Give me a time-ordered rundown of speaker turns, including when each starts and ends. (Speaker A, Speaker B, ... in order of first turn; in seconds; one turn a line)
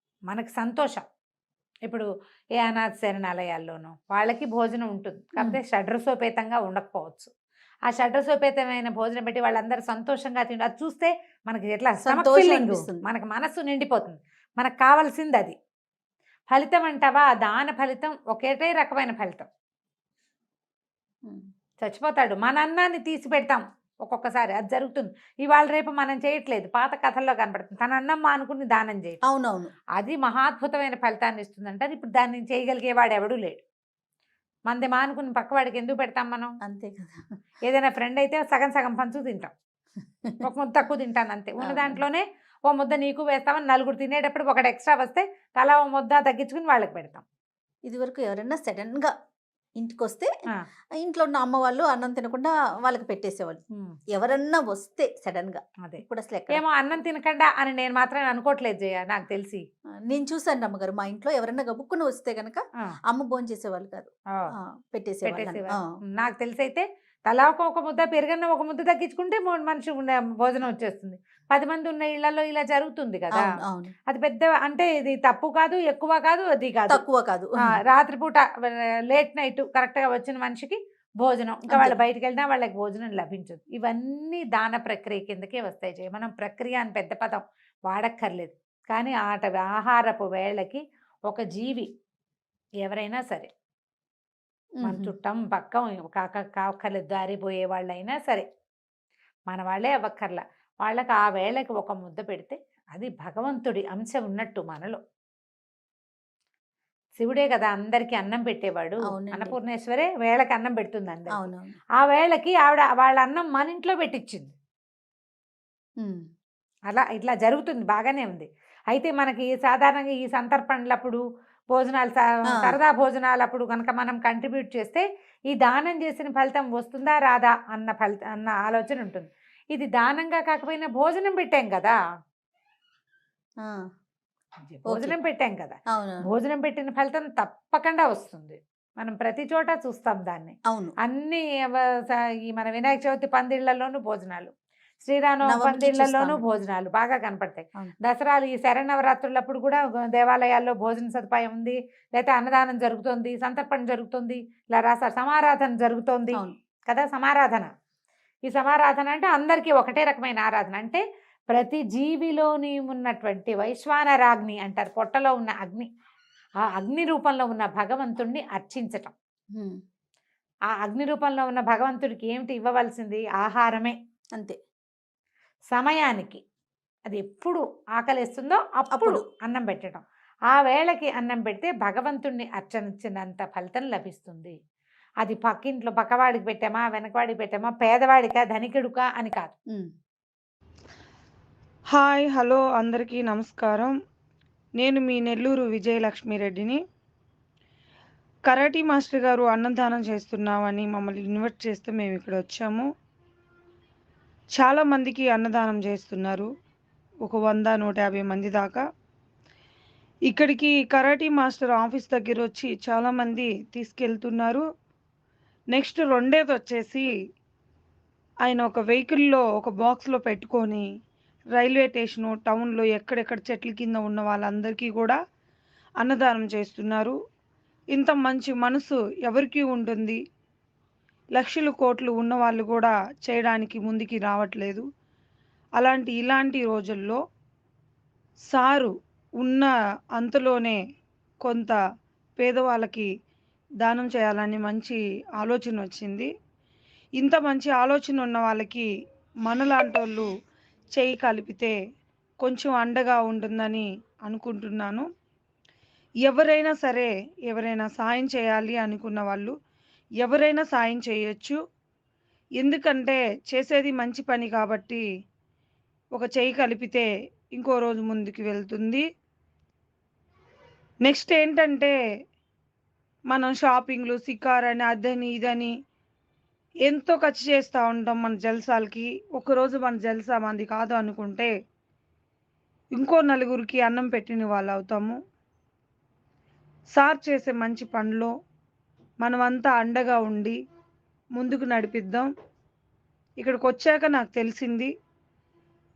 Speaker A: 0.3-1.0
Speaker A: 2.6-7.3
Speaker A: 7.9-15.6
Speaker B: 12.0-13.0
Speaker A: 16.5-19.5
Speaker A: 21.8-29.2
Speaker B: 29.3-29.7
Speaker A: 30.0-33.6
Speaker A: 34.7-36.5
Speaker B: 36.6-37.2
Speaker A: 37.6-39.5
Speaker A: 40.4-47.2
Speaker B: 41.6-42.0
Speaker B: 47.9-49.1
Speaker B: 49.8-50.3
Speaker B: 51.0-53.6
Speaker B: 54.1-56.6
Speaker A: 55.8-59.6
Speaker B: 60.1-64.1
Speaker B: 64.6-65.8
Speaker A: 65.2-73.5
Speaker B: 73.4-73.9
Speaker A: 74.1-77.0
Speaker B: 76.9-77.7
Speaker A: 77.7-91.9
Speaker B: 81.7-81.9
Speaker A: 92.8-93.5
Speaker B: 94.8-95.1
Speaker A: 94.8-98.5
Speaker A: 99.5-105.0
Speaker A: 107.2-111.4
Speaker B: 109.1-109.5
Speaker B: 111.3-111.8
Speaker A: 112.0-114.5
Speaker A: 116.9-121.2
Speaker A: 121.7-131.9
Speaker B: 122.5-122.8
Speaker A: 134.6-135.8
Speaker B: 134.9-135.2
Speaker B: 135.9-136.3
Speaker A: 136.3-157.7
Speaker B: 145.5-146.4
Speaker A: 158.5-165.9
Speaker A: 166.7-169.1
Speaker A: 170.8-173.9
Speaker A: 175.7-176.4
Speaker A: 177.1-184.6
Speaker B: 178.9-179.2
Speaker A: 185.2-189.5
Speaker C: 191.9-193.9
Speaker C: 194.8-196.8
Speaker C: 198.5-202.8
Speaker C: 204.6-206.5
Speaker C: 207.2-208.8
Speaker C: 210.3-214.6
Speaker C: 215.7-217.1
Speaker C: 218.4-220.8
Speaker C: 221.6-225.2
Speaker C: 226.0-227.2
Speaker C: 227.9-230.2
Speaker C: 231.3-234.8
Speaker C: 235.8-237.2
Speaker C: 238.5-240.8
Speaker C: 241.4-241.8
Speaker C: 242.4-243.1
Speaker C: 243.8-246.3
Speaker C: 247.2-248.9
Speaker C: 249.5-250.3
Speaker C: 250.9-251.7
Speaker C: 252.4-255.1
Speaker C: 256.2-259.5
Speaker C: 260.2-261.6
Speaker C: 262.6-265.0
Speaker C: 266.1-269.0
Speaker C: 271.0-271.9
Speaker C: 273.3-275.7
Speaker C: 276.8-281.5
Speaker C: 282.9-285.2
Speaker C: 286.9-288.3
Speaker C: 289.2-290.6
Speaker C: 291.4-292.3
Speaker C: 293.4-294.9